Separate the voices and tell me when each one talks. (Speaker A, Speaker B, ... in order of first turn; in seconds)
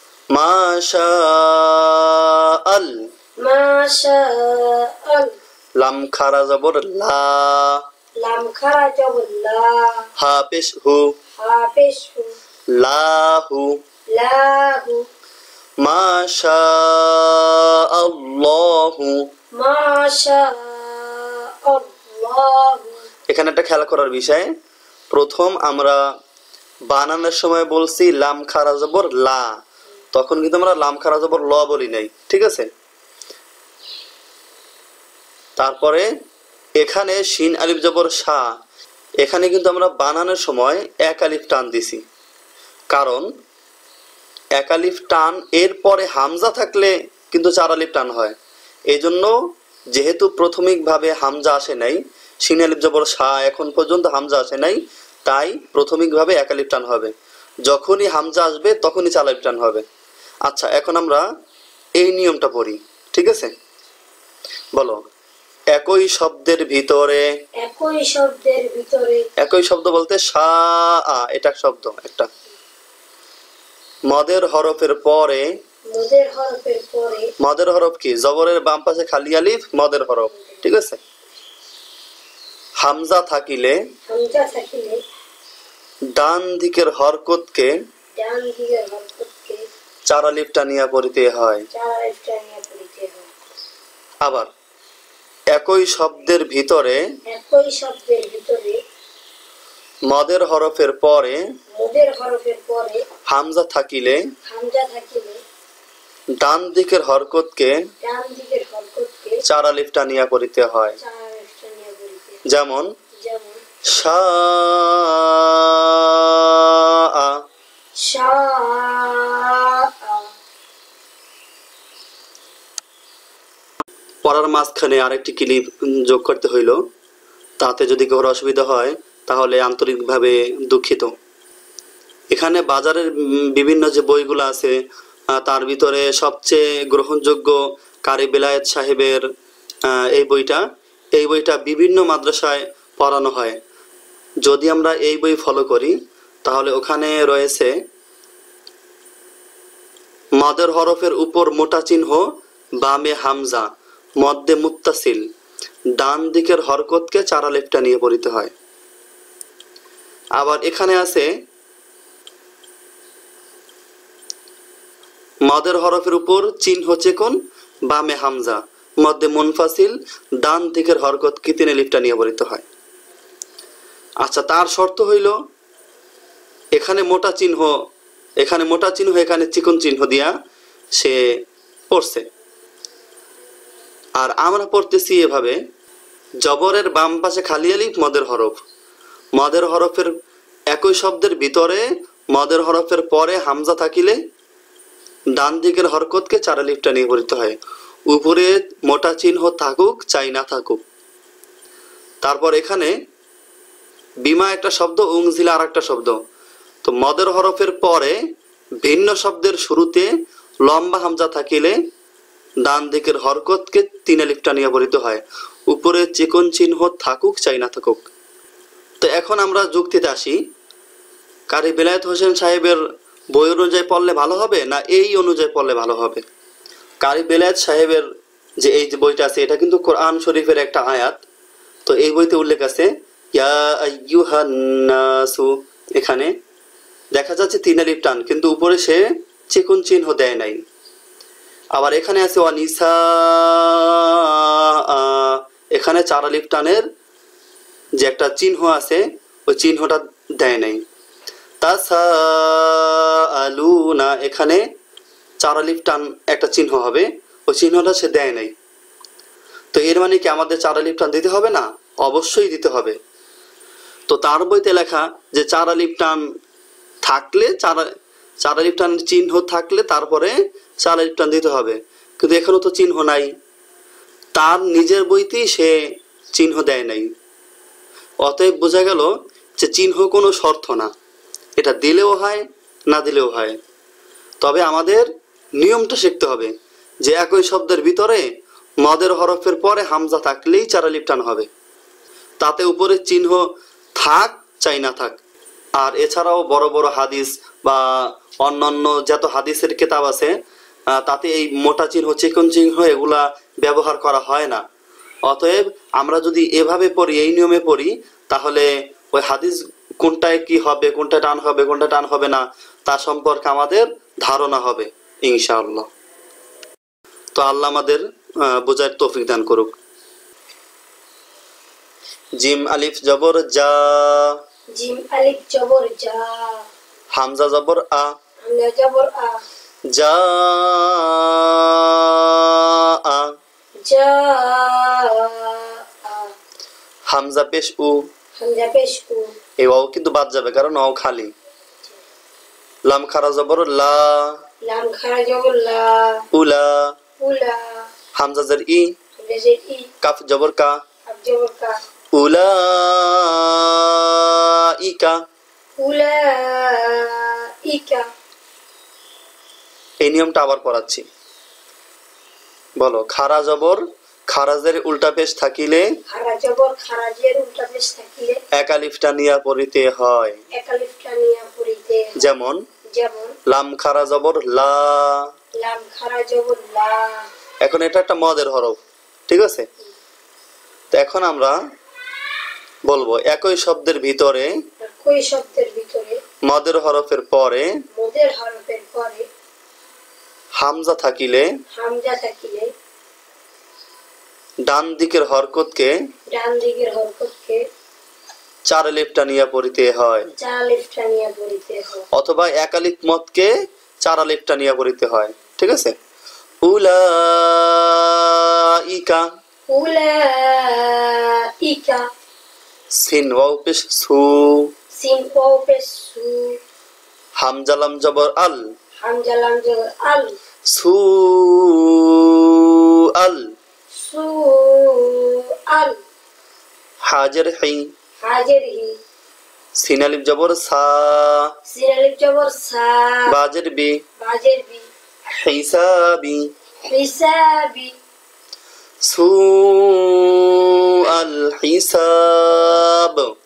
Speaker A: 0.3-3.0, 5.8-7.8, 10.2-11.1, 12.7-13.8, 15.8-19.2, 23.3-24.5, 25.1-26.0, 26.9-29.6, 30.1-32.7, 35.6-36.1, 36.8-38.5, 39.2-42.0, 42.9-43.3, 44.5-48.4, 48.9-49.3, 49.9-57.1, 57.6-59.8, 60.4-61.2, 62.0-63.5, 64.7-65.0, 65.7-67.2, 69.4-72.3, 74.1-75.5, 77.4-81.0, 82.8-83.8, 86.1-87.7, 90.0-91.7, 94.2-94.5, 95.5-97.0, 100.1-101.4, 103.3-104.3, 106.4-107.7, 109.4-111.0, 112.5-112.9, 113.9-117.4, 124.2-126.8, 127.6-131.1, 132.3-134.8, 135.3-139.2, 139.8-143.6, 144.4-147.7, 150.4-152.3, 152.8-155.2, 155.9-158.5, 160.3-161.3, 165.4-172.7, 174.2-175.3, 176.7-177.8, 178.4-180.3, 181.9-182.2, 184.2-185.6, 186.4-188.6, 189.3-190.1, 190.7-194.2, 195.3-200.8, 202.2-202.9, 204.2-206.2, 206.8-208.2, 208.8-210.1, 210.6-211.8, 212.6-218.1, 219.0-220.4, 221.5-226.2, 227.0-228.1, 228.6-231.2, 231.8-236.3, 237.1-240.6, 241.7-246.8, 248.0-250.8, 251.6-254.6, 255.4-258.5, 259.7-263.0, 264.1-266.2, 267.0-267.9, 268.4-273.3, 274.3-275.8, 276.3-277.1, 278.2-280.9, 281.6-283.6, 284.4-288.3, 288.8-291.5, 292.4-295.2, 295.8-300.3, 300.9-304.6, 305.2-315.9, 317.3-319.8, 322.4-324.4, 327.1-328.1, 329.9-333.4, 337.1-338.1, 339.6-341.3, 342.9-344.4, 346.3-346.9, 348.1-348.9, 350.0-350.8, 352.1-355.2, 360.0-361.0, 362.8-365.9, 368.5-370.4, 372.2-372.6, 373.5-375.3, 377.6-379.7, 380.9-381.6, 382.9-384.5, 386.4-387.7, 390.6-391.5, 394.6-395.9, 398.6-400.3, 402.1-405.9, 406.6-409.2, 412.9-414.7, 417.4-418.6, 420.7-423.5, 427.0-427.9, 429.8-431.5, 433.3-433.9, 435.3-436.5, 439.0-443.2
Speaker B: 3.4-5.3, 8.2-10.0, 11.4-12.3, 14.1-15.1, 19.5-23.1, 67.6-69.2, 75.9-77.3, 80.3-80.6, 84.1-85.0, 88.1-89.6, 91.7-93.3, 97.3-98.8, 101.7-103.0, 104.4-105.4, 108.0-109.4, 111.0-112.4, 113.2-113.6, 118.0-120.3, 324.7-326.7, 328.4-329.4, 333.8-336.3, 338.4-339.4, 344.6-346.2, 347.2-347.9, 349.2-349.9, 351.1-351.8, 355.8-358.1, 366.1-368.4, 370.5-372.3, 372.9-373.4, 375.6-377.2, 384.8-386.2, 387.9-389.3, 391.7-392.7, 396.3-397.6, 400.4-402.1, 409.7-412.0, 414.9-416.6, 419.0-420.4, 423.9-426.0, 428.2-428.9, 431.7-433.3, 434.2-434.9, 436.9-437.9